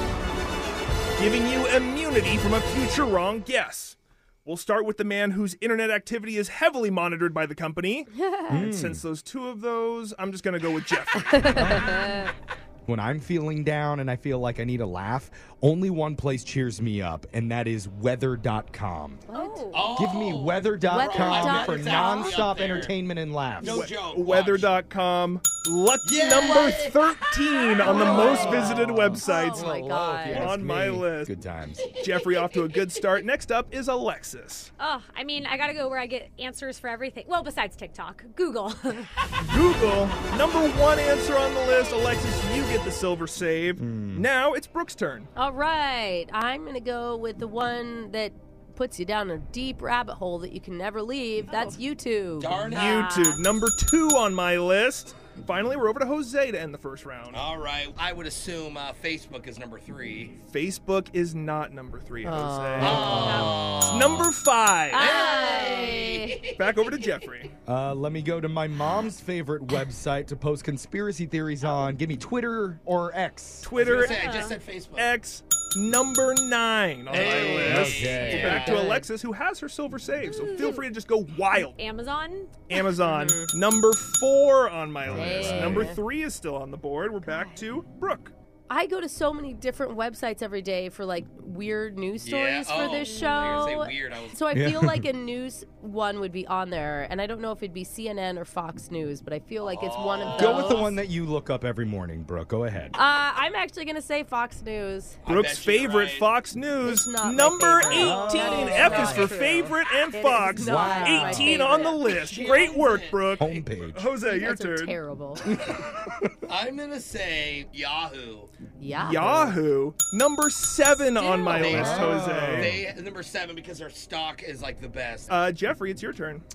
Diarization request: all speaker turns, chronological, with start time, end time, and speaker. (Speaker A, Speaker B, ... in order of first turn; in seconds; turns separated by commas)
Speaker A: 1.2-11.8, Speaker B: 8.2-8.6, Speaker C: 8.5-9.0, Speaker B: 11.2-12.3, Speaker C: 11.5-12.0, Speaker C: 12.8-19.2, Speaker B: 19.3-19.9, Speaker D: 19.3-19.8, Speaker E: 19.7-22.9, Speaker C: 19.9-23.9, Speaker B: 20.9-22.4, Speaker E: 23.6-24.8, Speaker A: 23.6-31.3, Speaker E: 26.0-28.8, Speaker C: 27.9-31.9, Speaker B: 27.9-28.7, Speaker B: 29.2-30.5, Speaker E: 31.8-33.2, Speaker A: 32.0-34.7, Speaker D: 34.8-39.2, Speaker A: 39.4-45.3, Speaker C: 43.8-44.2, Speaker B: 45.4-53.4, Speaker E: 52.4-53.0, Speaker A: 52.7-57.5, Speaker E: 57.3-60.4, Speaker A: 60.5-63.2, Speaker B: 62.2-63.5, Speaker E: 62.8-64.3, Speaker C: 62.8-63.6, Speaker A: 63.8-65.2, Speaker B: 64.9-66.4, Speaker E: 64.9-67.2, Speaker A: 66.5-67.5, Speaker C: 67.7-73.7, Speaker A: 73.6-74.2, Speaker E: 73.7-75.2, Speaker D: 73.9-74.6, Speaker A: 75.0-81.8, Speaker E: 77.1-78.9, Speaker C: 77.1-78.8, Speaker B: 78.7-79.0, Speaker D: 80.2-80.9, Speaker D: 81.6-82.6, Speaker A: 82.7-88.3, Speaker B: 82.7-83.5, Speaker C: 85.0-85.9, Speaker B: 85.1-86.0, Speaker D: 87.2-87.7, Speaker B: 88.7-101.0, Speaker E: 92.2-94.4, Speaker D: 93.0-93.6, Speaker C: 94.5-95.1, Speaker E: 99.6-100.8, Speaker C: 100.3-103.0, Speaker B: 102.9-105.2, Speaker E: 105.2-106.4, Speaker A: 105.2-115.0, Speaker B: 106.8-112.1, Speaker C: 107.8-109.3, Speaker C: 110.6-111.6, Speaker E: 112.0-113.3, Speaker C: 113.4-114.1, Speaker B: 114.2-115.4, Speaker C: 115.5-116.2, Speaker E: 116.5-118.5, Speaker B: 118.8-119.6, Speaker A: 118.9-122.7, Speaker B: 121.2-122.1, Speaker E: 121.5-125.5, Speaker C: 121.6-122.9, Speaker A: 125.3-126.4